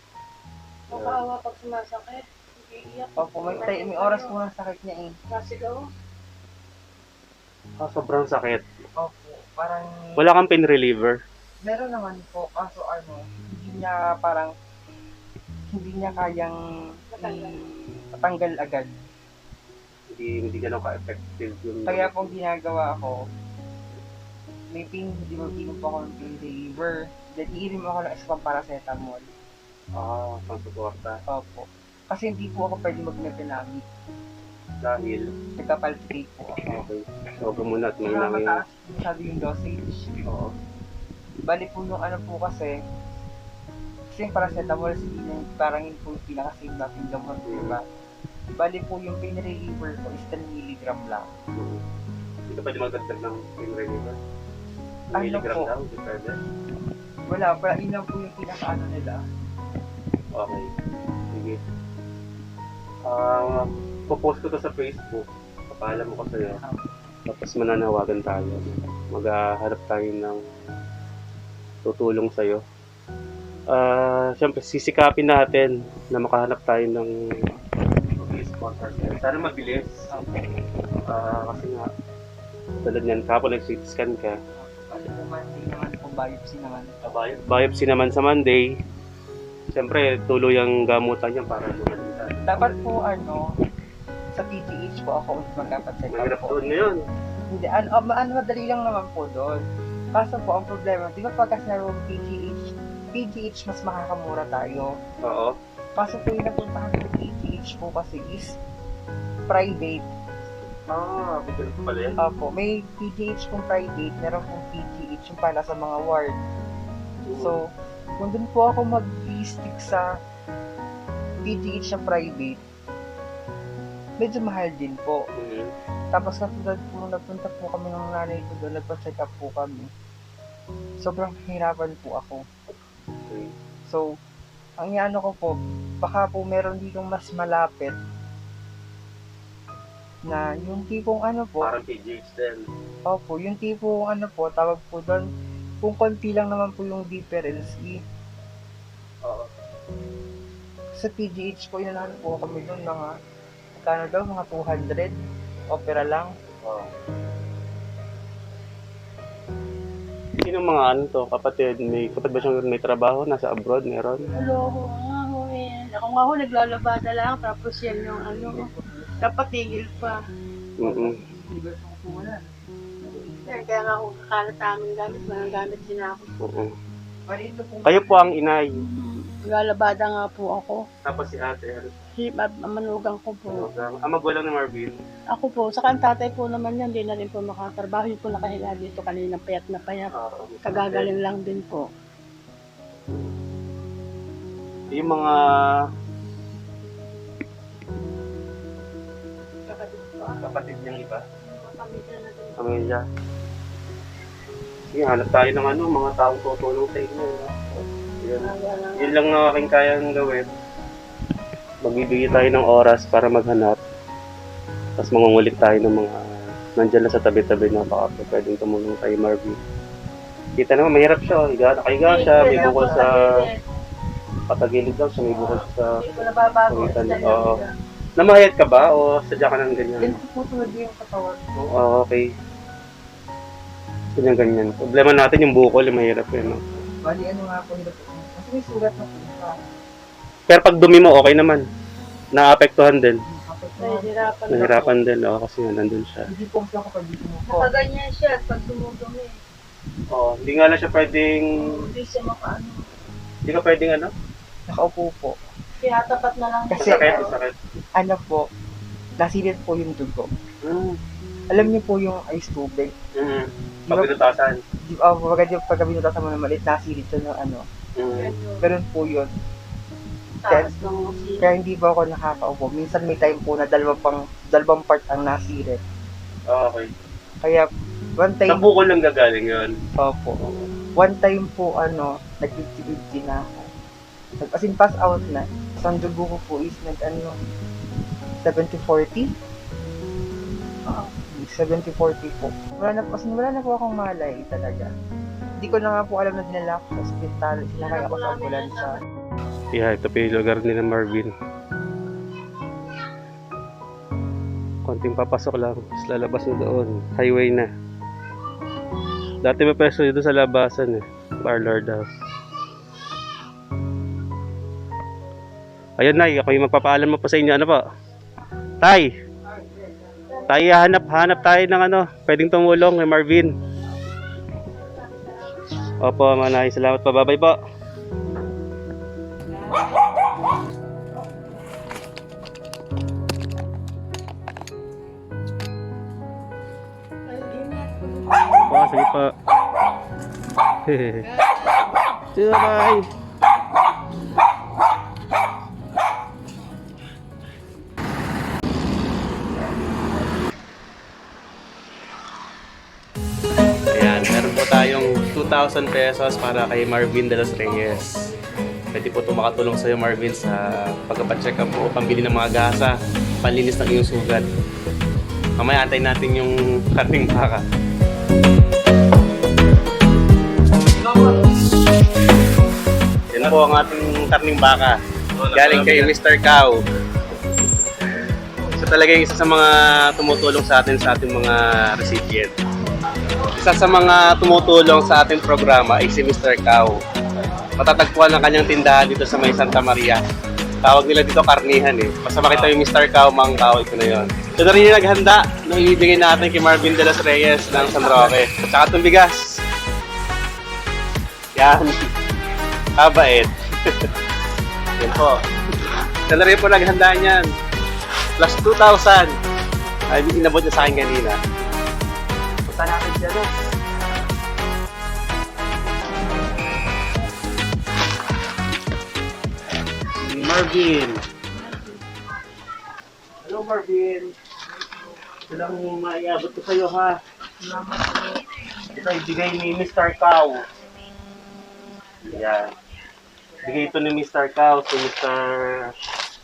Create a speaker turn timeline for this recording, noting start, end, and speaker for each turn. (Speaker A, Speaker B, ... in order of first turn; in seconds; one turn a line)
Speaker A: 0.9-4.3
Speaker B: 0.9-1.2
Speaker C: 3.2-5.1
Speaker A: 5.3-5.9
Speaker B: 7.8-8.6
Speaker C: 9.0-10.2
Speaker B: 10.2-11.2
Speaker C: 11.7-14.5
Speaker C: 15.7-16.6
Speaker A: 17.1-17.7
Speaker C: 17.2-17.5
Speaker C: 18.1-18.9
Speaker B: 20.1-22.3
Speaker C: 21.9-23.2
Speaker C: 24.7-29.3
Speaker B: 30.0-31.2
Speaker C: 31.3-33.8
Speaker B: 34.8-35.2
Speaker C: 35.6-36.7
Speaker B: 36.7-38.6
Speaker C: 38.0-40.1
Speaker B: 40.2-40.5
Speaker C: 41.5-42.8
Speaker C: 44.1-47.8
Speaker B: 47.5-47.8
Speaker C: 48.6-51.2
Speaker B: 52.5-54.2
Speaker C: 55.1-55.7
Speaker B: 55.1-56.4
Speaker C: 57.3-59.2
Speaker B: 60.4-60.7
Speaker B: 61.3-61.6
Speaker B: 63.0-66.6
Speaker C: 66.6-66.9
Speaker B: 67.3-70.4
Speaker B: 71.8-72.6
Speaker B: 73.7-77.1
Speaker B: 78.2-80.0
Speaker C: 80.1-80.5
Speaker B: 81.1-81.9
Speaker B: 82.8-84.4
Speaker C: 84.5-86.9
Speaker B: 87.0-88.7
Speaker B: 89.7-92.8
Speaker C: 92.5-93.5
Speaker C: 94.4-96.6
Speaker B: 96.1-97.0
Speaker C: 97.5-99.6
Speaker C: 100.2-104.9
Speaker B: 105.2-105.5
Speaker C: 106.0-108.5
Speaker C: 109.5-110.1
Speaker B: 110.9-112.2
Speaker C: 112.2-116.3
Speaker B: 117.3-117.6
Speaker C: 118.2-120.1
Speaker C: 121.5-122.6
Speaker C: 124.2-125.2
Speaker B: 125.4-125.7
Speaker C: 126.1-129.9
Speaker C: 131.0-132.4
Speaker B: 133.3-133.5
Speaker C: 134.8-137.9
Speaker C: 140.3-141.7
Speaker B: 141.6-142.7
Speaker C: 143.1-145.2
Speaker C: 145.8-148.0
Speaker B: 149.2-149.5
Speaker C: 151.0-153.1
Speaker C: 153.8-155.1
Speaker C: 155.7-156.3
Speaker B: 156.6-156.9
Speaker B: 160.4-164.3
Speaker C: 164.3-164.8
Speaker A: 164.4-168.7
Speaker C: 168.3-169.4
Speaker A: 169.2-170.2
Speaker B: 170.8-171.1
Speaker C: 170.8-173.7
Speaker A: 173.5-176.3
Speaker B: 176.4-176.7
Speaker C: 177.3-178.3
Speaker B: 177.8-178.7
Speaker A: 178.8-180.8
Speaker B: 181.1-182.0
Speaker A: 182.2-183.7
Speaker B: 183.5-185.0
Speaker A: 185.3-190.1
Speaker B: 190.1-191.1
Speaker A: 190.7-191.9
Speaker B: 194.9-195.4
Speaker A: 199.7-200.4
Speaker B: 200.4-201.2
Speaker A: 201.5-202.8
Speaker B: 202.6-203.0
Speaker B: 204.9-207.6
Speaker B: 208.2-210.5
Speaker A: 208.4-209.2
Speaker B: 211.8-213.8
Speaker B: 215.0-216.2
Speaker B: 216.8-219.6
Speaker B: 220.6-223.2
Speaker A: 222.1-223.6
Speaker C: 222.3-223.1
Speaker B: 224.5-225.9
Speaker A: 226.0-227.7
Speaker B: 226.7-227.6
Speaker B: 228.2-230.2
Speaker C: 230.0-231.7
Speaker B: 231.8-232.3
Speaker B: 234.2-236.6
Speaker C: 237.0-239.6
Speaker B: 240.5-241.6
Speaker B: 242.3-243.2
Speaker C: 243.3-245.0
Speaker A: 243.8-244.8
Speaker B: 244.5-246.3
Speaker C: 246.3-247.7
Speaker A: 247.5-249.3
Speaker B: 250.1-251.5
Speaker A: 251.6-252.9
Speaker B: 253.5-254.1
Speaker C: 254.7-255.3
Speaker A: 255.8-257.3
Speaker C: 256.7-257.2
Speaker B: 256.8-257.6
Speaker C: 258.0-258.4
Speaker C: 259.2-260.3
Speaker B: 260.6-261.0
Speaker C: 261.5-262.9
Speaker B: 263.1-264.6
Speaker C: 263.9-264.1
Speaker C: 264.9-267.7
Speaker B: 268.0-268.3
Speaker A: 268.1-268.7
Speaker C: 268.6-269.3
Speaker A: 270.4-271.5
Speaker C: 270.5-270.7
Speaker C: 271.4-275.8
Speaker B: 276.5-276.9
Speaker C: 278.2-278.6
Speaker B: 278.5-279.7
Speaker C: 280.0-280.4
Speaker C: 281.0-283.7
Speaker C: 284.4-287.4
Speaker C: 288.4-289.3
Speaker A: 290.9-291.1
Speaker C: 291.4-294.9
Speaker C: 295.6-298.9
Speaker A: 297.8-299.0
Speaker B: 299.7-301.3
Speaker B: 304.9-307.7
Speaker B: 309.4-312.1
Speaker B: 316.0-317.8
Speaker B: 318.8-319.1
Speaker A: 320.2-320.4
Speaker B: 320.5-323.5
Speaker A: 324.8-325.8
Speaker B: 326.0-327.6
Speaker A: 337.3-338.9
Speaker B: 338.7-339.3
Speaker B: 340.9-341.2
Speaker A: 341.3-341.8
Speaker B: 342.4-343.1
Speaker B: 353.9-358.1
Speaker B: 358.9-364.5
Speaker B: 365.6-367.6
Speaker C: 371.1-371.5
Speaker B: 373.3-375.0
Speaker B: 375.5-376.8
Speaker B: 378.8-382.5
Speaker B: 383.4-387.0
Speaker B: 387.8-390.2
Speaker B: 390.8-399.5
Speaker B: 401.6-402.1
Speaker B: 403.0-404.0
Speaker B: 405.0-405.4
Speaker B: 406.3-407.5
Speaker B: 408.4-409.3
Speaker B: 410.1-411.4
Speaker B: 412.7-413.5
Speaker B: 420.2-421.2
Speaker B: 423.4-424.3
Speaker B: 425.5-427.2
Speaker C: 427.7-428.2
Speaker B: 428.9-430.6
Speaker B: 432.2-432.7
Speaker B: 433.6-435.8